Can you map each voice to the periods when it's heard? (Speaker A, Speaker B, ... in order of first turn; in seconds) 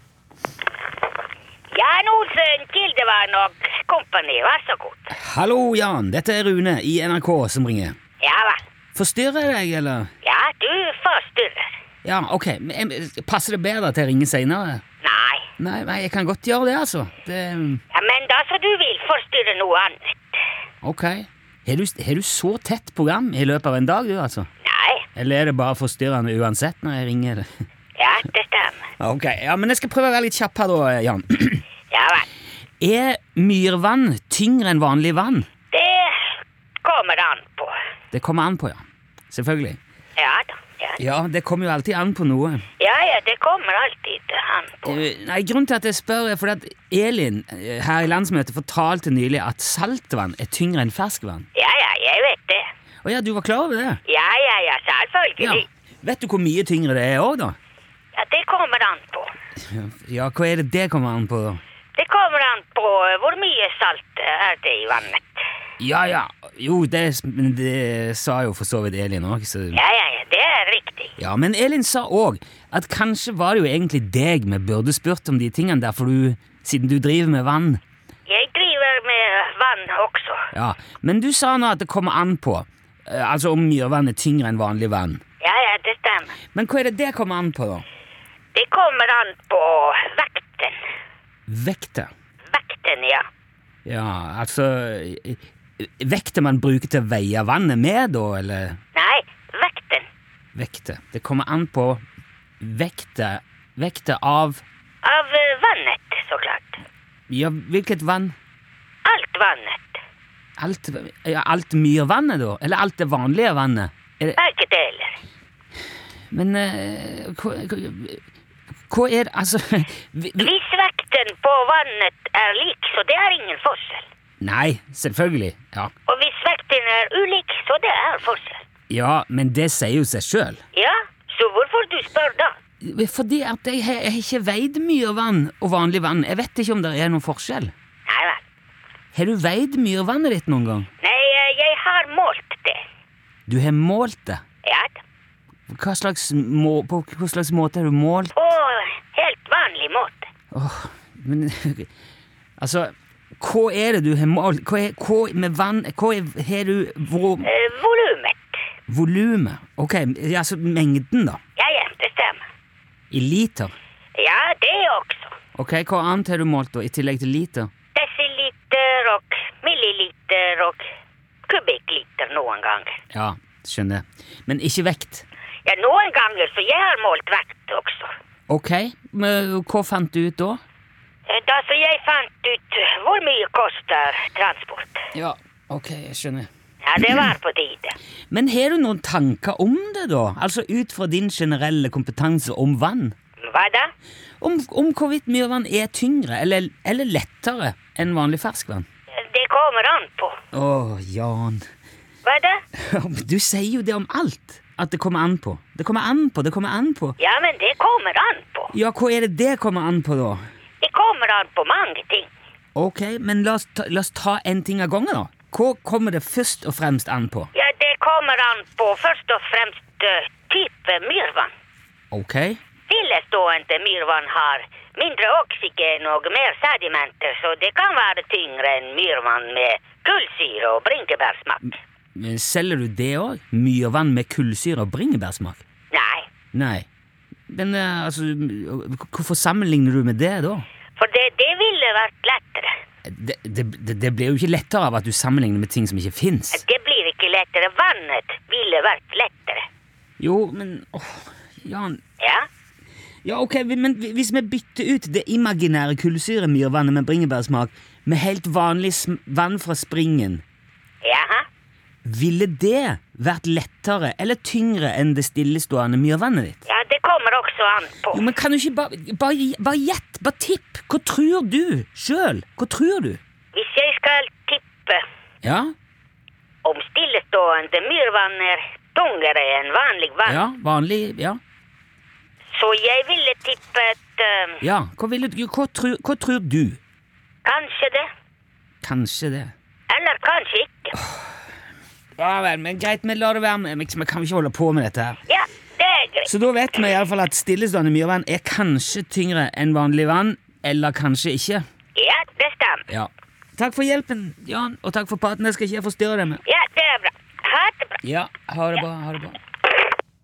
Speaker A: 1.7-5.1, 8.2-8.6, 10.2-11.7, 15.0-15.5, 17.9-20.2, 24.6-25.1, 28.0-28.9, 31.9-32.3, 35.7-37.8, 40.2-41.0, 42.8-45.0, 51.5-52.7, 54.1-55.7, 58.1-59.4, 62.0-65.4, 69.7-71.2, 78.3-80.4, 85.4-86.4, 88.5-90.8, 92.5-93.2, 99.0-100.1, 105.0-106.8, 109.0-110.0, 114.4-115.2, 120.4-124.0, 126.1-128.6, 130.7-132.6, 138.1-138.4, 141.0-142.8, 144.6-145.0, 148.3-150.3, 157.4-158.6, 161.6-162.4, 164.2-165.3, 167.9-170.8, 171.5-173.0, 175.7-178.1, 181.3-185.0, 186.8-188.0, 193.5-193.9, 199.2-200.4, 202.2-202.6, 207.2-208.7, 210.8-212.3, 217.5-221.5, 222.9-231.8, 235.9-236.3, 241.0-242.7, 246.5-249.7, 252.2-252.5, 261.0-261.5, 266.7-268.3, 273.5-275.0, 276.6-280.5, 282.6-284.6, 287.4-288.1, 289.9-291.0, 295.3-296.3, 302.0-302.9, 306.4-308.0
Speaker B: 5.1-8.0, 8.9-10.1, 12.0-14.8, 15.6-17.8, 20.8-24.5, 25.2-27.5, 29.0-31.6, 32.8-35.5, 38.1-39.8, 41.0-42.6, 44.8-51.5, 53.0-54.0, 55.4-57.5, 59.6-61.6, 65.8-69.8, 71.2-77.8, 80.5-85.2, 86.5-87.8, 91.5-92.1, 93.8-98.8, 100.5-102.0, 102.6-104.6, 107.3-108.4, 110.6-114.4, 116.3-118.2, 118.9-120.5, 124.4-125.9, 128.9-130.6, 132.8-137.7, 139.1-140.9, 143.5-144.4, 145.7-148.3, 150.5-151.9, 152.6-157.5, 158.9-161.4, 163.1-163.7, 165.6-167.7, 173.1-175.3, 178.5-180.6, 185.1-187.3, 188.3-193.2, 194.4-198.9, 200.5-201.6, 202.8-207.2, 208.7-210.4, 212.8-217.5, 222.1-222.6, 232.2-235.6, 236.5-236.9, 237.5-240.7, 243.1-246.6, 250.2-252.0, 253.2-260.4, 262.1-266.6, 268.1-273.2, 275.4-275.7, 280.3-281.4, 284.6-286.8, 288.8-289.5, 292.2-295.2, 296.3-301.6, 302.9-306.4, 308.0-309.4